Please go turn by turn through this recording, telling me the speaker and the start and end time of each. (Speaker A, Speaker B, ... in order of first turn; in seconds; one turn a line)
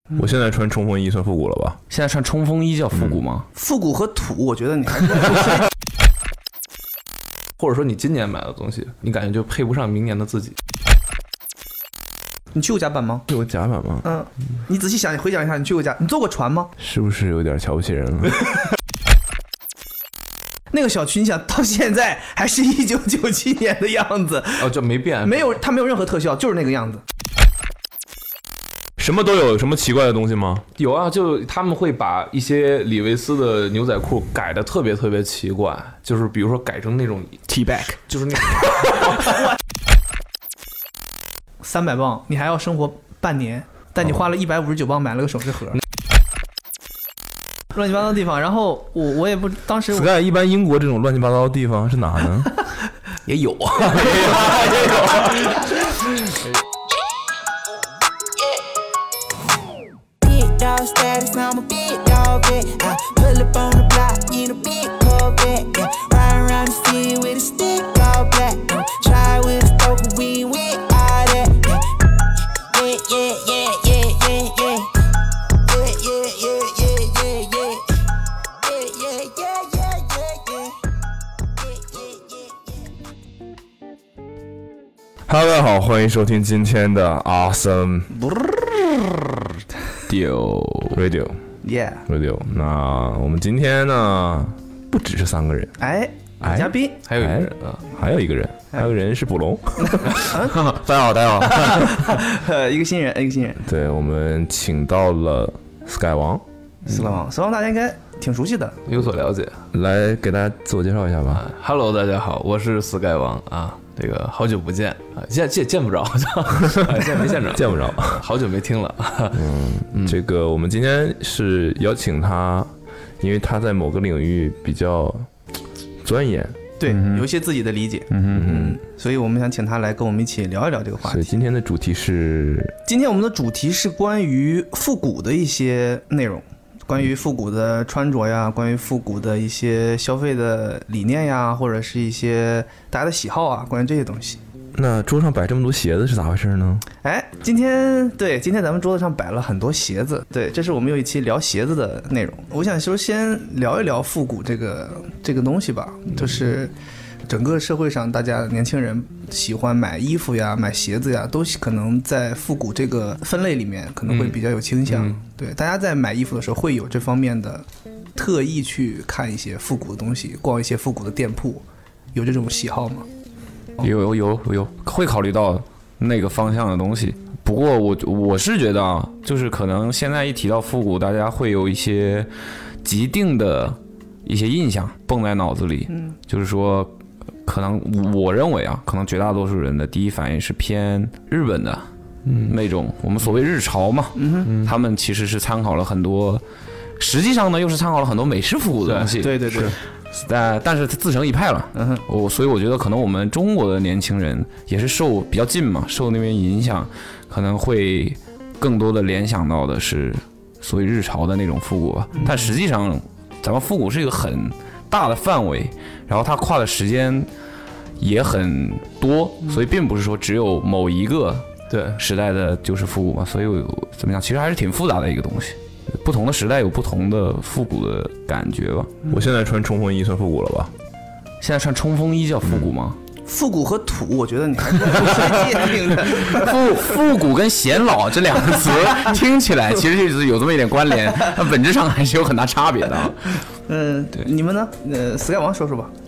Speaker A: 0.2-1.8
Speaker B: 1.9-3.5
Speaker A: 2.9-3.2
Speaker C: 3.5-5.6
Speaker D: 7.6-10.6
Speaker C: 12.5-13.3
Speaker A: 13.3-14.1
Speaker C: 14.0-16.7
Speaker A: 16.8-18.4
Speaker C: 20.7-27.0
Speaker D: 24.6-25.6
Speaker A: 29.0-30.6
Speaker D: 30.8-39.2
Speaker B: 37.5-38.0
Speaker C: 41.6-45.8
Speaker C: 47.7-50.1
Speaker A: 49.9-52.5
Speaker B: 53.3-55.3
Speaker D: 54.0-55.5
Speaker E: 60.2-71.9
Speaker E: 72.6-74.9
Speaker E: 75.6-77.9
Speaker E: 78.5-80.8
Speaker E: 81.6-82.6
Speaker A: 85.3-88.3
Speaker C: 88.2-88.5
Speaker B: 90.1-91.0
Speaker A: 90.9-91.4
Speaker C: 91.6-92.1
Speaker A: 92.1-95.8
Speaker C: 95.8-97.0
Speaker A: 96.4-100.3
Speaker D: 97.1-97.9
Speaker C: 99.8-100.6
Speaker B: 100.3-102.0
Speaker C: 101.4-103.6
Speaker A: 103.6-106.4
Speaker C: 106.9-108.8
Speaker D: 108.9-109.6
Speaker A: 109.7-111.4
Speaker D: 111.3-120.2
Speaker A: 116.7-118.2
Speaker A: 119.3-125.3
Speaker A: 126.0-126.6
Speaker C: 126.8-131.3
Speaker B: 126.9-127.2
Speaker B: 128.1-128.5
Speaker A: 128.3-128.8
Speaker A: 131.0-132.8
Speaker C: 132.9-144.4
Speaker A: 144.8-146.9
Speaker C: 147.0-156.7
Speaker C: 157.3-167.7
Speaker D: 164.1-165.2
Speaker C: 168.2-171.6
Speaker C: 172.2-173.1
Speaker B: 173.8-182.3
Speaker B: 182.8-191.9
Speaker D: 192.2-192.6
Speaker B: 192.4-196.4
Speaker C: 194.2-194.5
Speaker D: 194.5-194.7
Speaker B: 197.0-217.3
Speaker D: 198.8-199.7
Speaker C: 199.2-199.8
Speaker C: 201.8-202.0
Speaker B: 218.0-221.5
Speaker D: 221.7-222.0
Speaker B: 222.0-229.0
Speaker A: 229.1-230.7
Speaker B: 231.4-233.0
Speaker C: 233.3-236.6
Speaker B: 235.3-243.4
Speaker C: 243.7-245.9